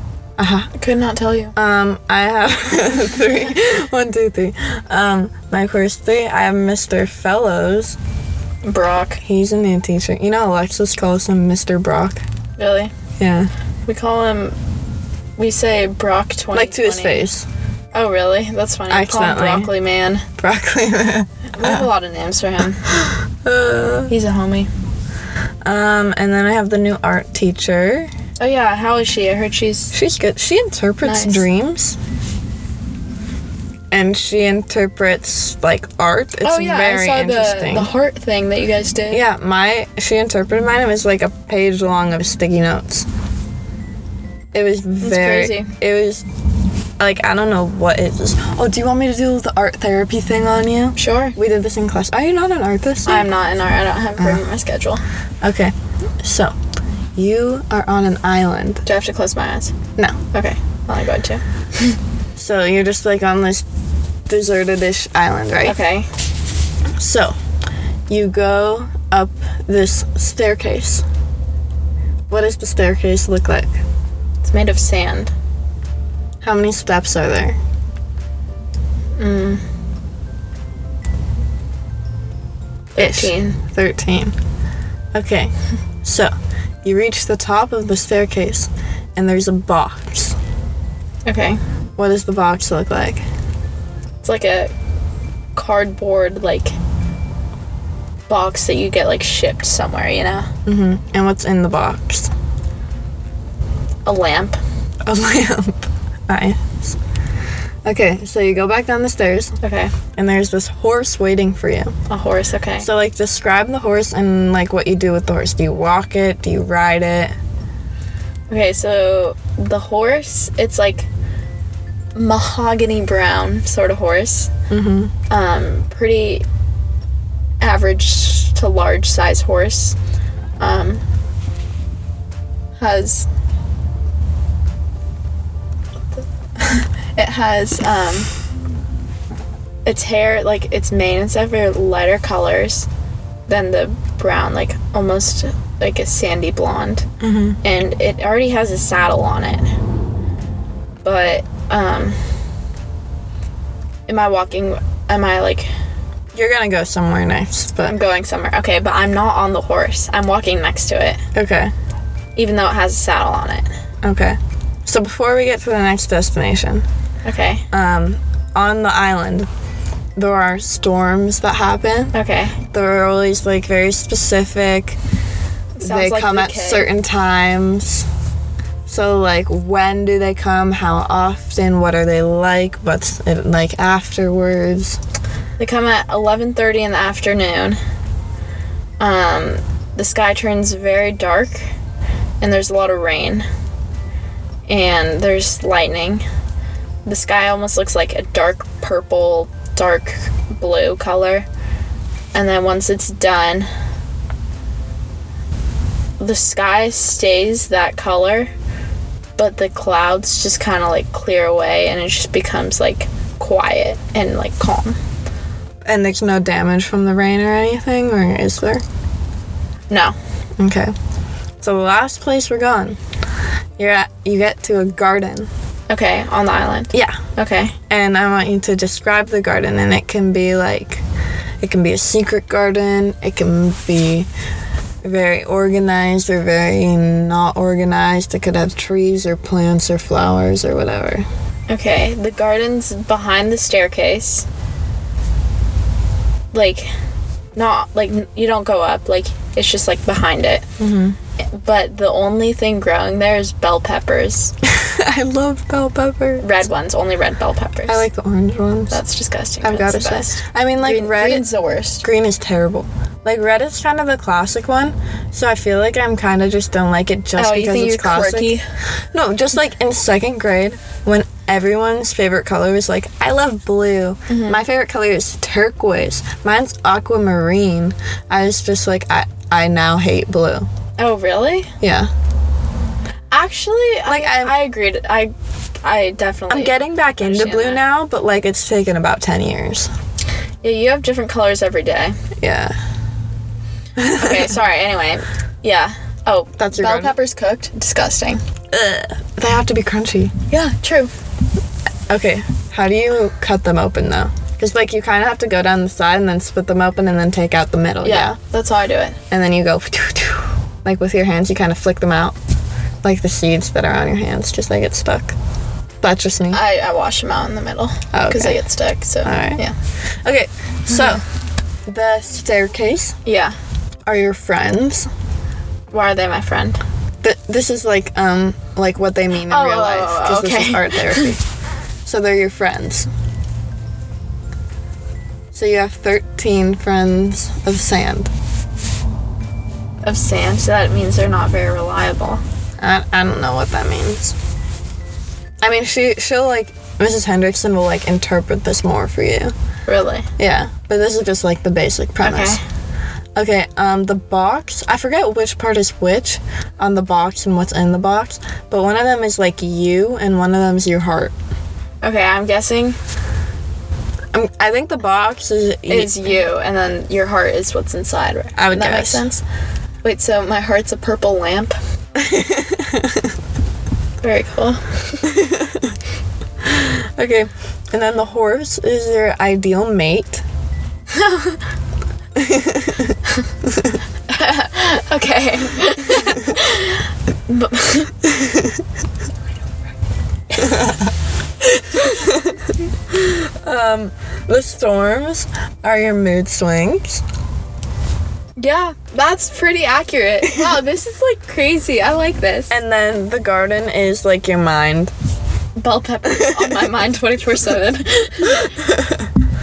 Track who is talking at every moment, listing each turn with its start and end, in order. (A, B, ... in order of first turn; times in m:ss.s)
0:00.4-0:00.7 A
0:00.8-0:01.5 B
0:01.6-0:08.0 A
0:08.6-0:09.2 B
0:09.2-0:12.2 A
0:12.6-0:12.9 B
0:13.2-0:13.5 A
0:13.9-0:14.6 B
0:15.4-0:17.2 B
0:16.5-0:17.5 A
0:17.9-0:20.3 B
0:18.9-0:19.7 A
0:20.4-0:21.9 A
0:21.5-0:22.8 B
0:22.9-0:24.1 A
0:24.1-0:24.7 B
0:25.6-0:28.1 A
0:28.4-0:29.9 B
0:29.9-0:32.0 A
0:31.0-0:31.4 B
0:33.9-0:37.9 A
0:36.4-0:39.2 B
0:39.1-0:43.1 A
0:44.5-0:46.2 A
0:45.0-0:45.7 B
0:47.0-0:53.3 A
0:51.0-0:51.4 B
0:53.1-0:55.0 B
0:54.2-0:54.4 A
0:55.4-0:56.6 A
0:57.2-0:58.8 A
0:58.9-0:59.8 B
1:00.3-1:02.0 B
1:02.4-1:03.6 A
1:04.3-1:05.8 A
1:05.6-1:06.1 B
1:07.0-1:07.4 A
1:08.1-1:11.0 A
1:12.3-1:13.7 A
1:14.4-1:15.3 B
1:16.4-1:17.6 A
1:19.2-1:19.6 B
1:23.0-1:23.6 B
1:23.0-1:24.4 A
1:25.1-1:25.5 A
1:26.0-1:26.3 A
1:26.8-1:30.4 A
1:31.3-1:31.6 B
1:32.0-1:33.2 A
1:34.2-1:34.7 B
1:35.6-1:36.8 B
1:38.3-1:40.5 B
1:40.6-1:42.3 A
1:44.1-1:44.6 B
1:45.0-1:47.0 A
1:47.8-1:49.6 A
1:49.6-1:49.9 B
1:50.2-1:52.0 A
1:52.1-1:52.9 B
1:52.8-1:57.4 A
1:58.5-2:01.1 B
2:02.2-2:04.5 B
2:04.7-2:05.1 A
2:05.3-2:06.4 B
2:07.6-2:10.0 B
2:10.6-2:11.0 B
2:12.8-2:13.3 B
2:16.6-2:18.3 B
2:19.8-2:22.9 B
2:23.5-2:27.1 B
2:27.2-2:27.6 A
2:27.6-2:29.6 B
2:31.0-2:32.2 B
2:34.1-2:35.7 B
2:36.3-2:38.0 A
2:37.9-2:41.2 B
2:41.4-2:41.7 A
2:42.4-2:43.7 B
2:44.0-2:46.8 A
2:47.2-2:47.6 B
2:47.7-2:49.5 A
2:50.2-2:52.1 A
2:52.1-2:52.6 B
2:52.7-2:55.0 A
2:55.8-2:56.9 B
2:55.8-2:58.1 A
2:58.9-3:05.0 A
3:05.6-3:07.8 B
3:09.0-3:11.7 B
3:12.4-3:13.5 B
3:14.7-3:16.2 B
3:17.1-3:21.5 B
3:22.3-3:23.7 B
3:26.2-3:28.5 B
3:29.4-3:35.0 B
3:35.8-3:38.8 A
3:39.9-3:40.2 B
3:40.6-3:40.9 A
3:41.6-3:43.0 A
3:43.8-3:45.5 A
3:45.9-3:47.8 B
3:46.9-3:47.2 A
3:47.9-3:51.0 A
3:51.6-3:54.3 A
3:55.0-4:01.3 A
4:01.7-4:04.5 B
4:06.5-4:06.9 B
4:07.6-4:10.7 B
4:10.8-4:11.2 A
4:11.5-4:14.5 B
4:14.6-4:16.6 A
4:16.4-4:18.0 B
4:17.9-4:19.0 A
4:18.9-4:22.0 B
4:19.6-4:21.5 A
4:22.0-4:28.6 A
4:27.4-4:28.6 B
4:29.1-4:40.7 A
4:34.3-4:34.6 B
4:41.0-4:41.7 B
4:41.8-4:42.1 A
4:43.3-4:47.8 B
4:44.0-4:44.6 A
4:46.5-4:49.9 A
4:50.6-4:52.2 B
4:52.4-4:52.8 A
4:54.0-4:54.6 A
4:54.1-4:58.4 B
4:56.6-4:57.2 A
4:58.7-5:00.3 A
5:00.5-5:01.1 B
5:02.1-5:08.4 A
5:08.0-5:09.2 B
5:09.3-5:12.4 A
5:13.0-5:15.4 A
5:16.0-5:16.6 A
5:16.5-5:19.8 B
5:18.1-5:18.6 A
5:19.2-5:19.6 A
5:20.2-5:21.2 A
5:21.9-5:23.2 A
5:23.2-5:23.6 B
5:24.1-5:25.1 A
5:25.9-5:26.8 B
5:27.2-5:31.4 A
5:29.4-5:31.4 B
5:32.0-5:33.1 A
5:35.5-5:38.3 A
5:40.0-5:42.4 B
5:42.8-5:44.4 A
5:45.6-5:49.5 A
5:49.9-5:50.3 B
5:50.4-5:52.6 A
5:52.2-5:52.6 B
5:53.4-6:01.3 A
6:02.0-6:03.0 B
6:04.3-6:06.4 A
6:05.9-6:09.4 B
6:08.6-6:09.3 A
6:10.0-6:11.8 B
6:12.2-6:13.3 A
6:14.2-6:15.3 B
6:15.2-6:16.0 A
6:16.6-6:20.4 A
6:21.1-6:21.6 B
6:22.4-6:24.0 A
6:24.3-6:28.3 B
6:28.4-6:28.8 A
6:30.6-6:31.1 A
6:31.9-6:37.2 A
6:38.6-6:42.7 B
6:42.7-6:45.1 A
6:45.8-6:48.8 B
6:46.3-6:46.9 A
6:48.5-6:49.3 A